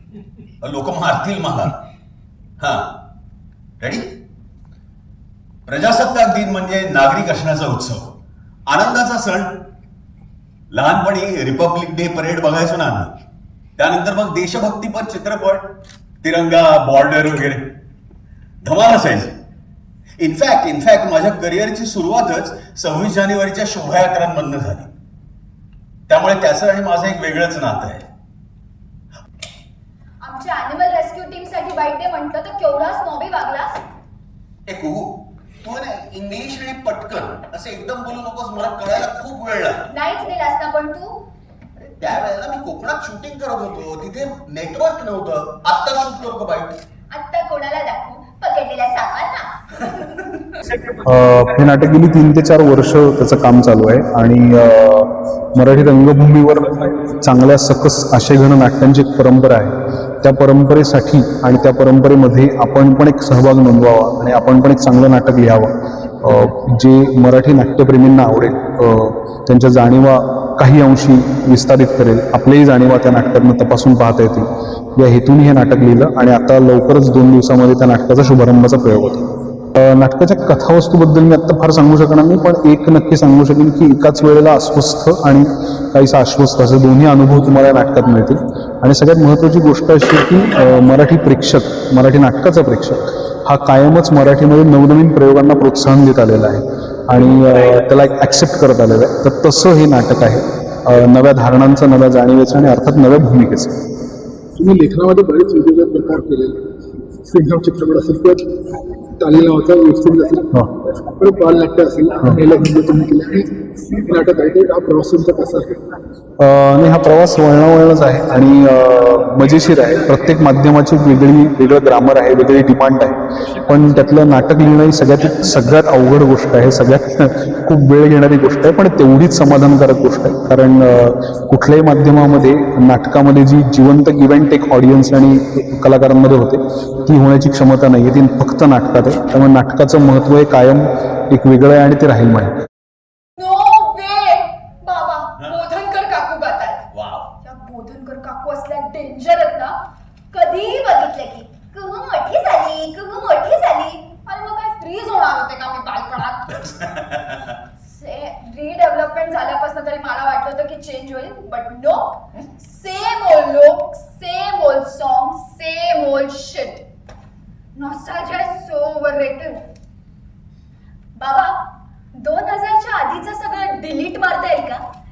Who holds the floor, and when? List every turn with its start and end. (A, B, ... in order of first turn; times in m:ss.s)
0:00.6-0:01.8 A
0:02.6-0:02.8 A
0:03.8-0:04.0 A
0:05.7-0:08.1 A
0:08.7-0:09.5 A
0:10.7-0:13.1 A
0:13.8-0:15.7 A
0:16.2-0:17.6 A
0:18.6-0:19.3 A
0:20.2-0:24.9 A
0:26.1-0:28.0 A
0:30.2-0:33.8 B
0:34.7-0:35.1 A
0:35.6-0:39.9 A
0:39.9-0:41.2 B
0:41.8-0:46.8 A
0:47.1-0:49.9 B
0:51.0-1:43.8 C
1:44.6-1:46.6 D
1:47.2-1:48.4 D
1:49.2-1:50.5 D
1:51.0-1:55.8 D
1:56.4-2:22.6 C
2:23.4-2:26.8 B
2:26.9-2:27.3 A
2:27.4-2:29.8 B
2:30.3-2:36.8 B
2:37.8-2:46.8 B
2:47.7-2:49.7 B
2:51.2-2:51.6 B
2:52.1-2:54.8 B